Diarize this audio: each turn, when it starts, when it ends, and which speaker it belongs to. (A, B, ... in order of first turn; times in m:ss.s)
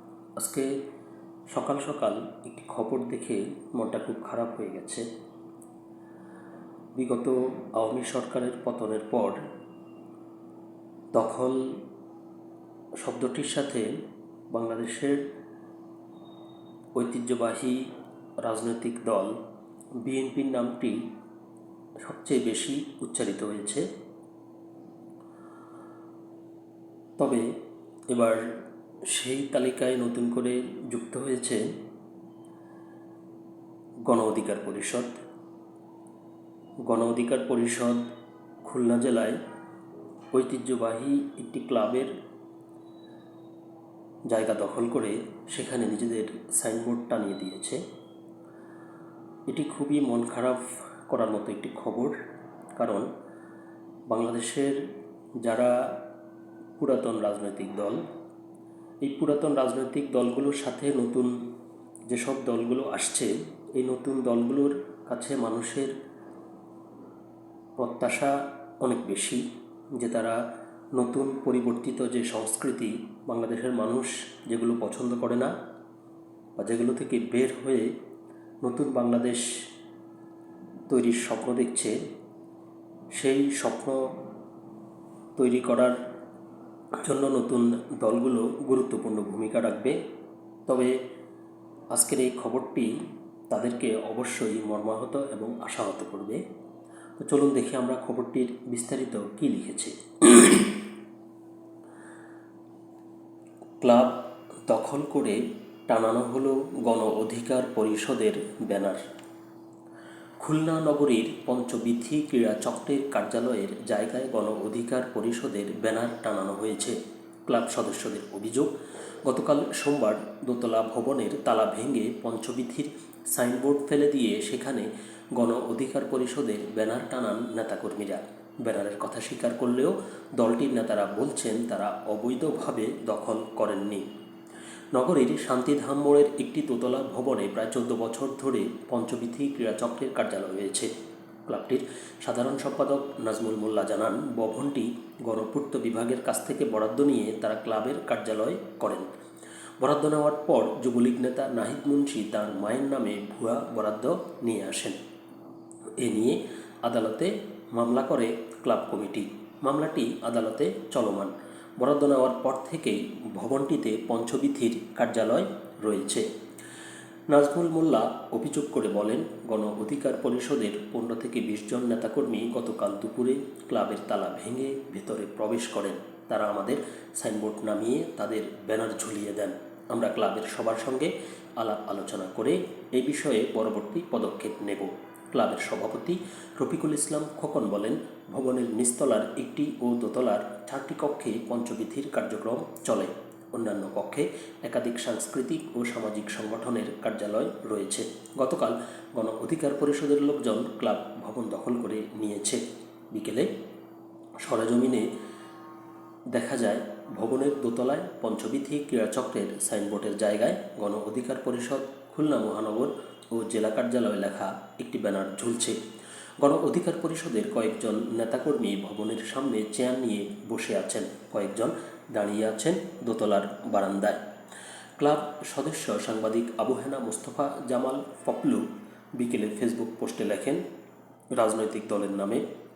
0:00.4-0:00.8 A
0:01.5-0:05.1 A
0:07.0-0:09.4 A
0:11.1-0:11.8 A
0:13.0-0:14.0 A
0:14.5-0:15.2 A
0:17.0-0:17.9 A
0:18.4-0:19.4 A
0:20.0-0:21.0 A
0:22.0-0:23.9 A
0:27.2-0:27.5 A
0:28.1-0:28.4 A
0:29.1-0:31.7 A
0:34.1-0:35.1 A
0:36.9-0:38.0 A
0:38.6-0:39.4 A
0:40.3-0:42.1 A
0:44.3-0:47.8 A
0:49.5-0:52.2 A
0:52.8-0:53.1 A
0:54.1-0:54.8 A
0:55.4-0:56.0 A
0:56.8-0:58.0 A
0:59.0-1:01.4 A
1:02.1-1:05.9 A
1:07.8-1:09.4 A
1:10.0-1:10.4 A
1:10.9-1:15.5 A
1:16.6-1:17.9 A
1:18.6-1:19.5 A
1:20.9-1:22.0 A
1:23.1-1:24.1 A
1:25.4-1:26.0 A
1:27.0-1:30.0 A
1:30.7-1:31.0 A
1:31.9-1:32.9 A
1:33.5-1:36.4 A
1:37.2-1:40.8 A
1:43.8-1:49.0 A
1:50.4-1:58.7 A
1:59.2-2:14.1 A
2:14.9-2:20.9 A
2:21.5-2:29.1 A
2:29.8-2:35.0 A
2:36.0-2:46.3 A
2:47.3-3:23.5 A
3:24.4-3:25.1 A
3:26.3-3:35.8 A
3:36.4-3:44.2 A
3:45.0-3:50.6 A
3:51.3-3:52.4 A